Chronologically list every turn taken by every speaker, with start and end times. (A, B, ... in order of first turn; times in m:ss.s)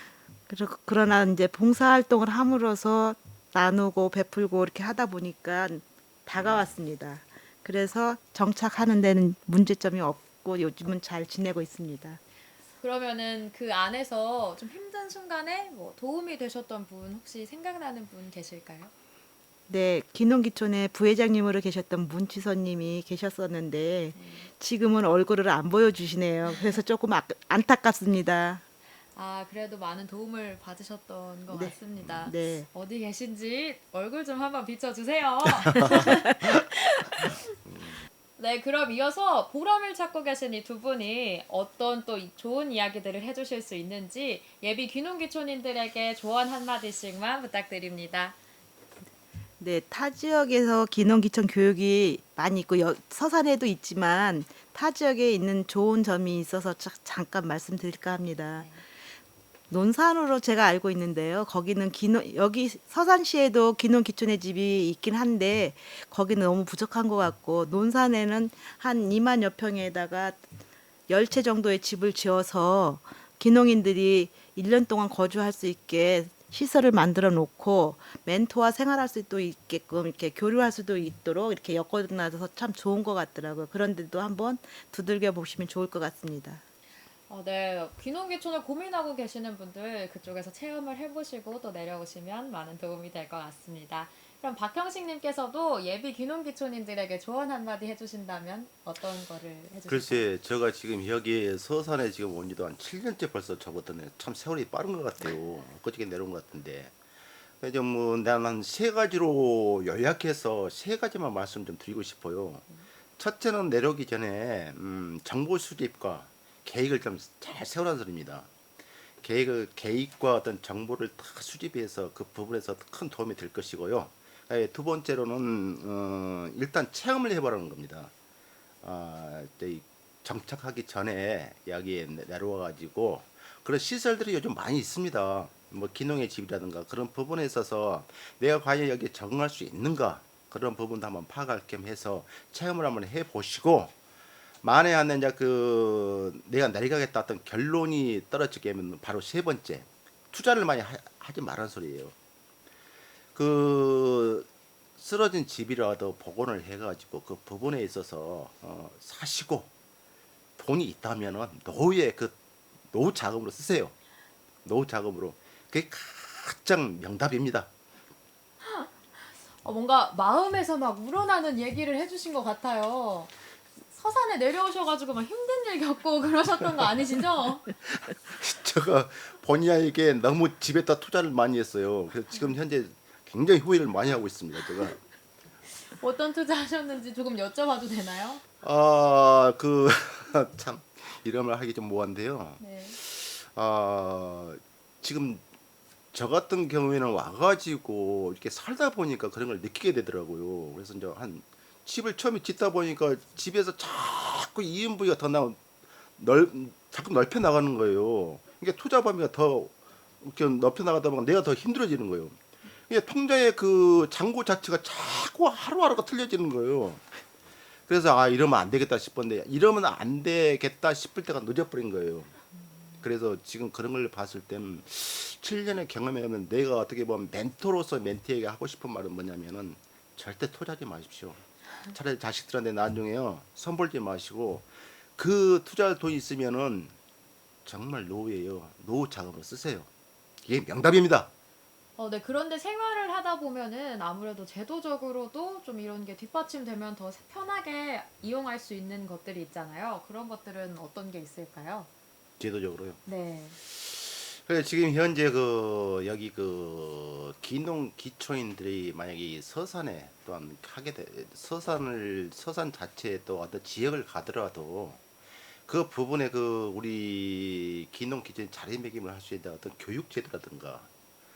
0:00.5-0:12.2 A
0:06.4-0:06.7 B
0:12.8-0:18.9 C
0:19.7-0:28.6 A
0:24.1-0:24.5 C
0:29.1-0:37.5 C
0:31.5-0:32.7 A
0:35.7-0:36.1 B
0:37.6-0:38.0 B
0:38.4-0:48.4 C
0:49.6-0:58.7 A
0:59.7-1:10.4 A
1:11.1-1:26.6 A
1:27.3-1:40.2 C
1:39.9-1:46.9 B
1:47.6-1:52.6 B
1:53.2-1:58.5 B
1:59.2-2:08.1 B
2:08.8-2:23.9 B
2:24.6-2:32.1 B
2:33.3-2:39.7 B
2:40.6-2:42.4 B
2:42.9-2:43.9 B
2:44.6-2:47.7 B
2:48.6-2:48.9 C
2:49.6-2:53.3 C
2:53.9-2:57.6 C
2:57.8-3:05.0 B
3:05.9-3:08.4 C
3:08.6-3:15.4 B
3:12.6-3:13.0 C
3:16.1-3:25.6 B
3:26.2-3:37.2 B
3:37.9-3:42.3 B
3:43.0-3:56.9 B
3:57.6-3:59.9 B
4:00.4-4:01.3 B
4:02.0-4:11.9 C
4:12.4-4:13.0 B
4:13.0-4:13.6 C
4:13.6-4:25.0 B
4:25.7-4:30.9 B